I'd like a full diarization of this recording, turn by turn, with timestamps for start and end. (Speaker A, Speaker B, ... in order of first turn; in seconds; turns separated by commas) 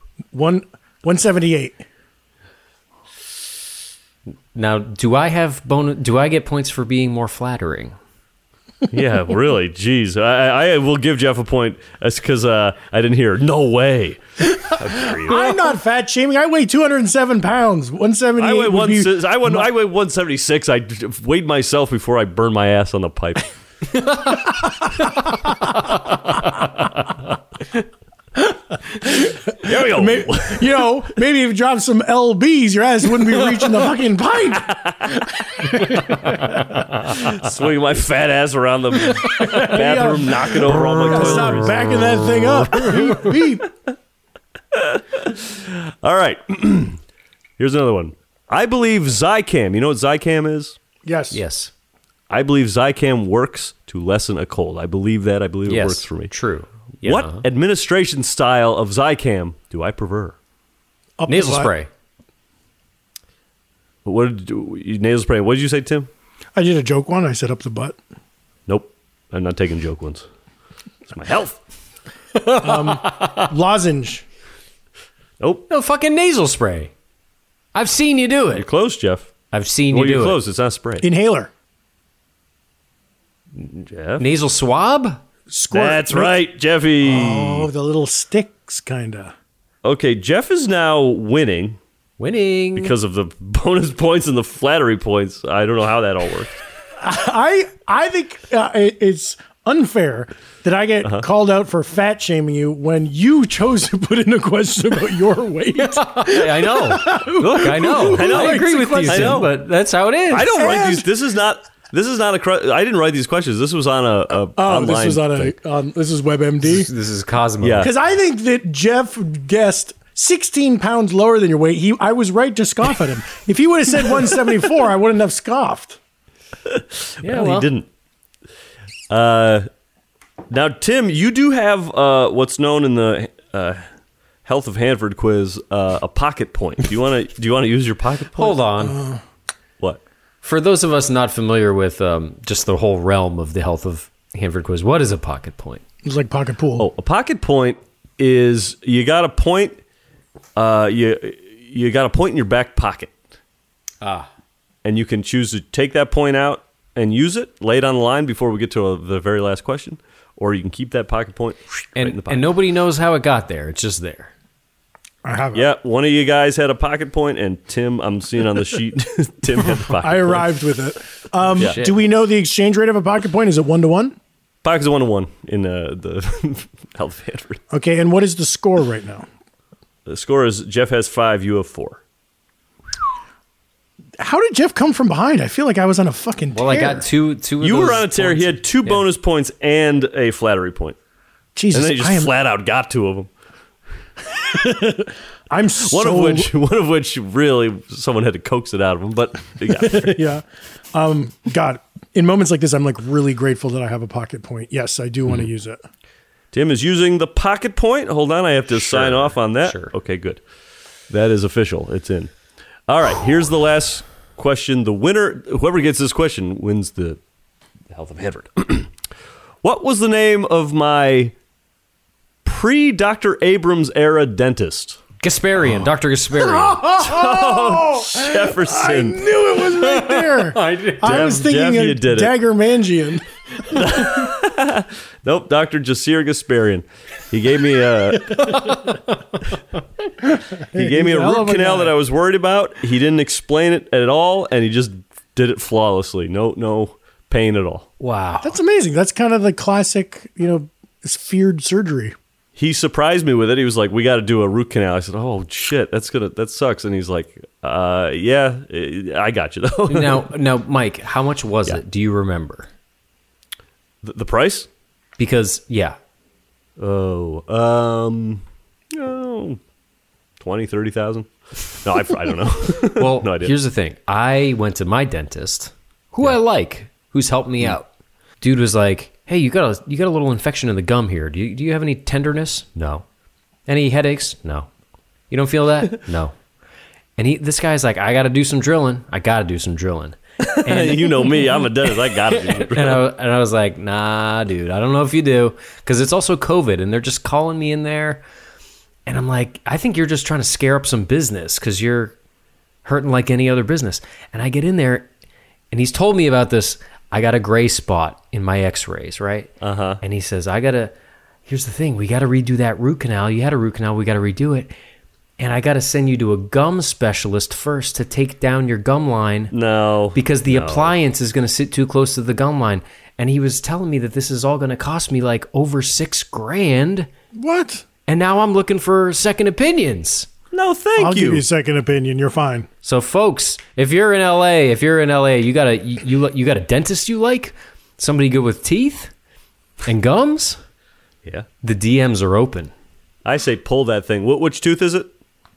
Speaker A: 0.3-1.8, Speaker B: 4.5-8.0, Speaker C: 8.9-15.6, Speaker A: 14.9-19.7, Speaker C: 18.4-23.5, Speaker A: 28.4-36.6, Speaker C: 29.5-30.9, Speaker C: 34.7-35.2, Speaker C: 37.0-42.9, Speaker A: 39.1-43.7, Speaker C: 44.7-47.0, Speaker C: 47.6-50.8, Speaker A: 51.0-51.4, Speaker B: 51.3-51.7, Speaker C: 52.3-56.3, Speaker B: 55.7-57.4, Speaker C: 57.0-60.3, Speaker A: 61.2-61.7, Speaker B: 61.3-61.9, Speaker C: 64.0-66.1, Speaker A: 66.5-68.0, Speaker C: 68.7-70.2, Speaker C: 71.1-71.6, Speaker B: 72.4-73.2, Speaker A: 72.6-74.2, Speaker C: 75.4-75.7, Speaker B: 75.7-76.9, Speaker B: 77.7-78.7, Speaker C: 78.5-79.3, Speaker B: 79.5-80.4, Speaker C: 79.9-81.1, Speaker A: 81.0-81.5, Speaker C: 83.8-84.3, Speaker B: 84.2-85.2, Speaker A: 85.5-86.4, Speaker C: 85.7-87.7, Speaker A: 87.0-89.3, Speaker C: 89.8-91.8, Speaker B: 92.2-92.9, Speaker C: 92.8-96.6, Speaker A: 97.0-109.5, Speaker B: 105.8-110.6, Speaker C: 108.0-109.5, Speaker C: 110.3-115.5, Speaker A: 110.5-111.1, Speaker A: 114.5-116.9, Speaker B: 116.6-117.9, Speaker C: 117.6-117.9, Speaker A: 117.8-126.0, Speaker C: 126.7-127.9, Speaker B: 127.2-127.7, Speaker C: 129.1-129.7, Speaker C: 130.5-133.8, Speaker C: 134.4-138.6, Speaker B: 138.4-139.0, Speaker A: 138.8-139.2, Speaker B: 140.4-145.8, Speaker A: 146.0-146.9, Speaker C: 146.8-149.8, Speaker C: 150.6-153.1, Speaker B: 154.0-154.3, Speaker C: 154.8-162.5, Speaker B: 161.9-164.3, Speaker A: 165.2-165.7, Speaker C: 165.5-170.5, Speaker A: 169.8-174.2, Speaker B: 171.5-171.9, Speaker C: 174.6-177.6, Speaker A: 177.7-179.3, Speaker C: 180.1-182.0, Speaker A: 184.2-187.1, Speaker B: 186.5-189.1, Speaker C: 187.6-190.9, Speaker A: 191.5-192.3, Speaker C: 191.7-193.3, Speaker A: 194.3-196.5, Speaker C: 195.8-200.2, Speaker A: 199.7-205.8, Speaker C: 206.5-210.4, Speaker B: 209.1-209.9, Speaker C: 211.1-212.3, Speaker C: 212.9-217.2, Speaker C: 217.9-218.9, Speaker C: 219.6-221.3, Speaker C: 222.4-225.0, Speaker B: 225.2-227.1, Speaker A: 226.4-233.2, Speaker C: 227.0-229.3, Speaker B: 229.8-231.2, Speaker C: 231.0-232.3, Speaker C: 233.7-238.7, Speaker B: 238.4-239.1, Speaker A: 240.4-241.9, Speaker C: 240.6-247.9, Speaker B: 248.0-248.6, Speaker A: 248.4-252.2, Speaker C: 252.6-260.3, Speaker B: 259.9-262.7, Speaker C: 264.0-264.7, Speaker B: 265.2-266.0, Speaker C: 266.8-269.6, Speaker C: 270.4-273.5, Speaker B: 272.9-277.9, Speaker B: 278.4-283.0, Speaker B: 283.7-284.7, Speaker B: 285.3-286.4, Speaker B: 287.2-298.2, Speaker C: 290.4-293.1, Speaker B: 299.1-302.1, Speaker B: 302.8-305.1, Speaker B: 305.7-310.9, Speaker C: 309.6-310.0, Speaker B: 311.4-314.7, Speaker B: 315.4-319.5, Speaker C: 319.5-320.9, Speaker B: 320.1-327.1, Speaker A: 327.3-327.8, Speaker B: 328.1-330.3, Speaker C: 330.5-331.4, Speaker A: 330.9-332.7, Speaker B: 332.8-339.1, Speaker B: 339.9-340.6, Speaker B: 341.6-342.7, Speaker C: 343.2-345.1